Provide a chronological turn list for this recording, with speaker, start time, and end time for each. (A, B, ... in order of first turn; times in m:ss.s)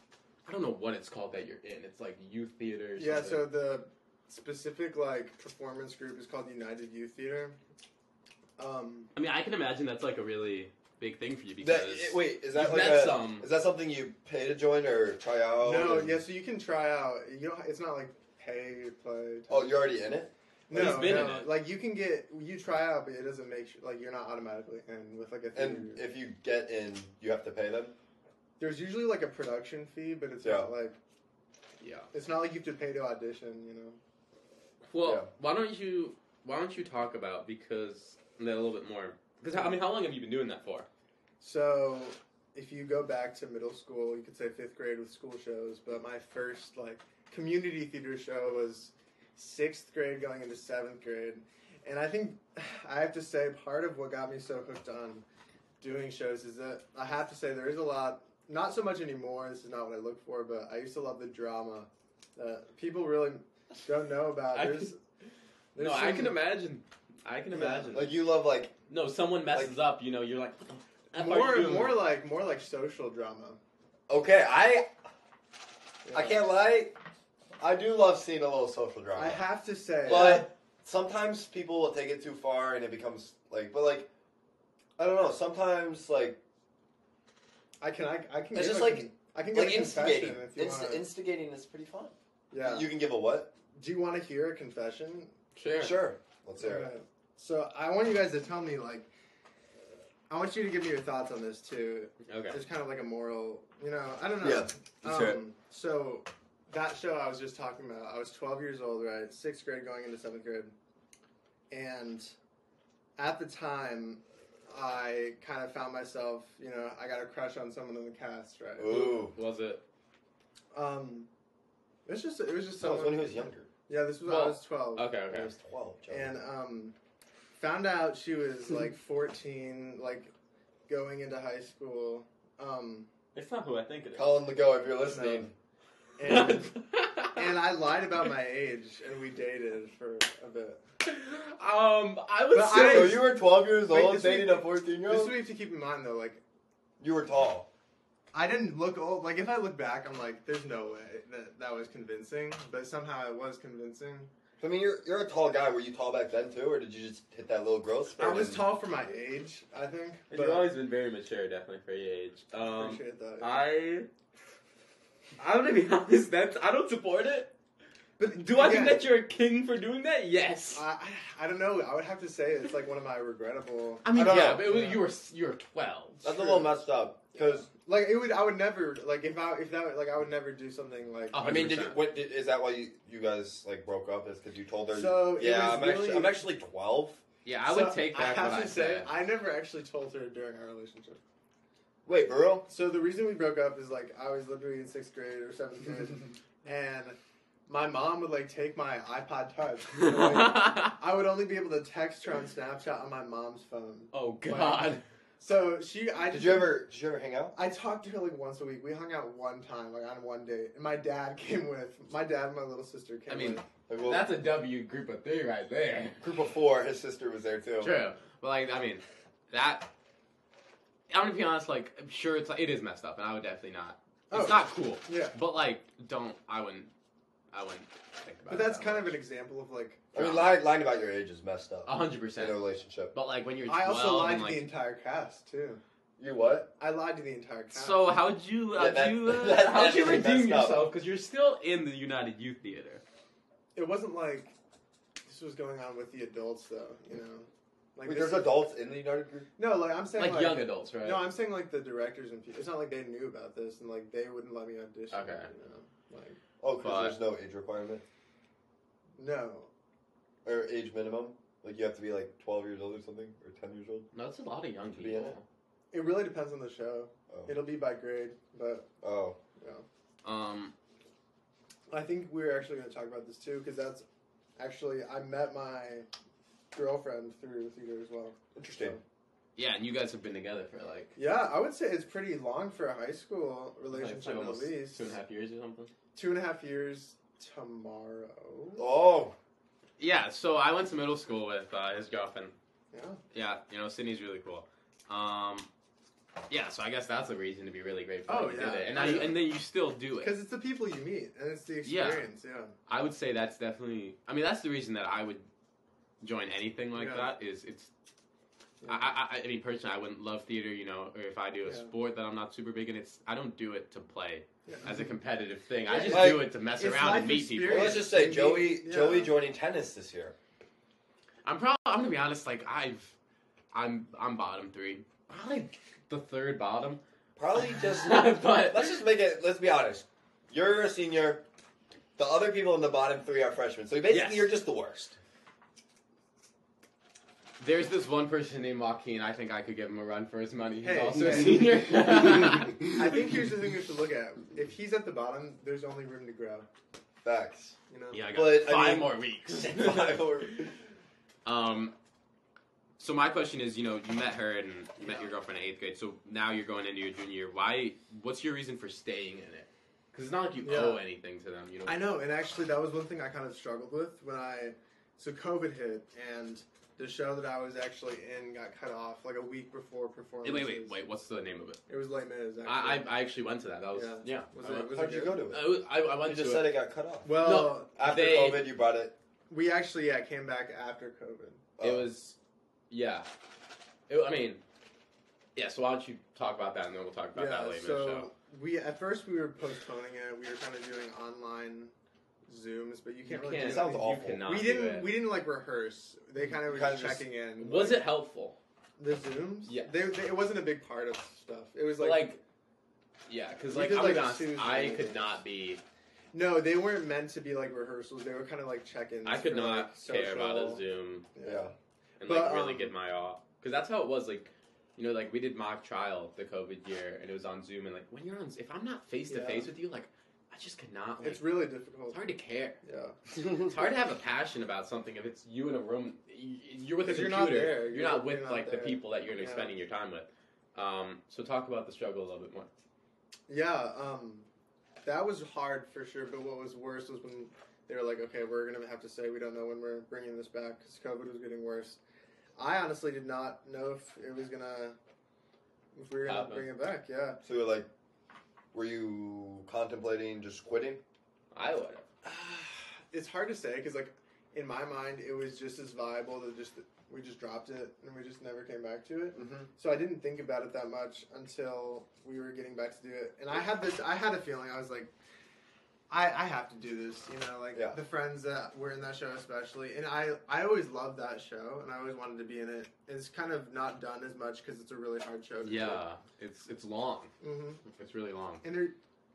0:00.5-0:03.5 A
0:03.0-0:07.6 B
0:08.6-0:09.1 B
0:09.2-0:13.5 A
0:11.6-0:16.3 C
0:15.6-0:19.8 B
0:19.5-0:21.4 C
0:20.7-0:26.0 B
0:20.7-0:21.5 A
0:25.5-0:28.0 C
0:28.6-0:31.0 B
0:30.4-0:30.7 C
0:31.8-0:32.1 A
0:32.1-0:34.0 B
0:34.9-0:40.9 A
0:35.0-0:35.3 C
0:41.4-0:55.2 B
0:55.8-1:05.0 B
1:04.5-1:04.9 A
1:05.8-1:06.4 B
1:05.8-1:08.2 A
1:07.5-1:08.0 B
1:07.9-1:08.7 C
1:08.9-1:12.0 A
1:11.1-1:13.6 B
1:14.1-1:14.9 C
1:16.0-1:16.4 B
1:16.1-1:17.0 C
1:17.6-1:19.4 C
1:19.2-1:20.5 B
1:20.0-1:24.1 C
1:25.0-1:26.4 C
1:27.8-1:31.1 B
1:28.5-1:33.5 C
1:32.5-1:32.9 B
1:33.7-1:35.3 B
1:35.6-1:36.0 A
1:35.8-1:36.9 C
1:36.6-1:39.1 B
1:40.3-1:50.7 B
1:42.3-1:42.6 A
1:44.4-1:45.4 C
1:51.7-1:52.3 B
1:53.2-1:59.3 B
1:58.8-1:59.4 C
1:58.9-1:59.8 A
2:00.7-2:01.3 B
2:02.1-2:05.6 B
2:02.8-2:03.7 C
2:04.2-2:05.5 A
2:05.6-2:06.4 C
2:06.1-2:07.0 B
2:07.6-2:10.3 B
2:10.9-2:13.1 B
2:13.3-2:14.4 A
2:14.2-2:15.5 C
2:15.1-2:15.5 B
2:16.2-2:20.8 B
2:16.2-2:17.5 A
2:21.0-2:23.2 A
2:22.5-2:26.4 B
2:22.7-2:25.4 C
2:27.0-2:27.7 C
2:28.3-2:34.3 B
2:34.6-2:38.6 C
2:38.2-2:40.7 B
2:40.3-2:44.1 A
2:42.6-2:43.7 B
2:45.4-2:47.5 A
2:48.2-2:49.1 B
2:48.2-2:50.8 A
2:50.7-2:55.0 B
2:54.0-2:56.2 A
2:54.2-2:54.6 C
2:56.1-2:56.8 B
2:56.2-2:57.7 C
2:57.4-3:01.4 B
3:01.3-3:02.0 A
3:01.4-3:07.2 C
3:04.9-3:06.4 B
3:07.4-3:09.1 A
3:07.7-3:11.2 B
3:12.1-3:12.7 C
3:12.7-3:26.8 B
3:19.9-3:21.0 A
3:24.1-3:25.0 A
3:26.3-3:27.6 C
3:27.5-3:33.7 B
3:33.3-3:36.2 A
3:33.9-3:34.3 C
3:36.2-3:38.0 C
3:37.8-3:39.9 A
3:41.1-3:46.9 A
3:44.3-3:45.4 B
3:47.5-3:49.2 A
3:48.5-3:50.2 B
3:50.1-3:53.1 C
3:50.2-3:50.6 A
3:51.9-3:54.7 A
3:53.7-3:55.8 B
3:56.2-3:56.7 C
3:56.8-3:58.0 B
3:57.7-4:03.0 A
3:58.8-4:00.9 C
4:03.8-4:04.5 B
4:05.2-4:08.6 B
4:08.0-4:09.5 C
4:09.6-4:16.4 B
4:10.2-4:11.3 A
4:15.1-4:15.5 A
4:16.6-4:18.0 C
4:16.8-4:17.2 A
4:19.2-4:19.7 B
4:20.4-4:24.1 C
4:24.1-4:25.4 A
4:25.0-4:25.4 C
4:25.9-4:28.9 B
4:27.3-4:27.6 C
4:29.0-4:29.4 C
4:29.6-4:29.8 B
4:30.2-4:30.7 A
4:31.9-4:34.0 B
4:34.6-4:36.1 B
4:36.7-4:39.0 B
4:38.6-4:39.0 C
4:39.6-4:41.2 A
4:41.2-4:45.1 B
4:43.9-4:45.9 A
4:46.1-4:48.9 B
4:48.8-4:49.4 C
4:50.0-4:52.5 A
4:52.9-4:53.2 B
4:53.3-4:55.7 A
4:56.5-5:00.3 A
4:58.3-4:59.4 B
5:00.2-5:02.7 B
5:01.8-5:02.3 A
5:02.9-5:05.5 A
5:06.2-5:07.9 A
5:07.0-5:07.3 B
5:08.8-5:09.1 B
5:08.8-5:18.1 A
5:11.7-5:11.9 B
5:14.7-5:15.1 B
5:15.9-5:19.4 B
5:16.1-5:16.5 C
5:17.7-5:20.4 C
5:21.4-5:23.2 A
5:23.7-5:27.0 A
5:27.4-5:31.4 C
5:27.5-5:29.0 A
5:32.2-5:35.2 C
5:34.1-5:34.5 A
5:37.6-5:43.0 A
5:40.8-5:41.8 B
5:42.8-5:46.7 B
5:47.2-5:47.8 C
5:47.9-5:48.2 B
5:48.1-5:50.3 A
5:48.3-5:50.8 C
5:51.4-5:51.9 A
5:53.0-6:02.0 A
6:00.6-6:01.0 B
6:01.9-6:11.0 B
6:10.4-6:11.8 A
6:11.9-6:13.1 B
6:12.6-6:14.9 A
6:13.9-6:15.5 B
6:14.9-6:19.1 C
6:15.5-6:18.7 A
6:17.2-6:18.0 B
6:19.5-6:21.6 B
6:21.8-6:22.1 C
6:21.8-6:22.4 A
6:22.9-6:23.3 A
6:24.1-6:24.6 A
6:25.6-6:28.3 A
6:27.4-6:31.9 B
6:32.5-6:38.1 B
6:33.3-6:35.1 A
6:33.6-6:34.5 C
6:36.7-6:37.3 C
6:37.6-6:38.6 A
6:39.0-6:42.3 B
6:39.7-6:40.1 A
6:42.0-6:42.4 A
6:43.3-6:45.8 A
6:43.7-6:45.3 B
6:46.3-6:52.9 B
6:49.2-6:51.3 A
6:51.4-6:51.7 C
6:52.2-7:01.5 A
6:59.3-6:59.7 B
7:01.2-7:02.2 B
7:02.1-7:02.8 A
7:02.8-7:03.2 B
7:03.4-7:12.7 A
7:07.0-7:09.7 B
7:13.5-7:14.5 B
7:15.0-7:22.0 B
7:22.6-7:25.0 B
7:26.0-7:27.4 B
7:26.3-7:26.7 A
7:27.4-7:27.9 C
7:28.7-7:31.0 C
7:31.5-7:32.1 A
7:32.2-7:45.1 B
7:39.3-7:39.7 C
7:46.1-7:56.0 B
7:55.6-7:57.3 A
7:57.4-7:57.8 B
7:57.8-7:58.6 A
7:58.6-7:59.0 B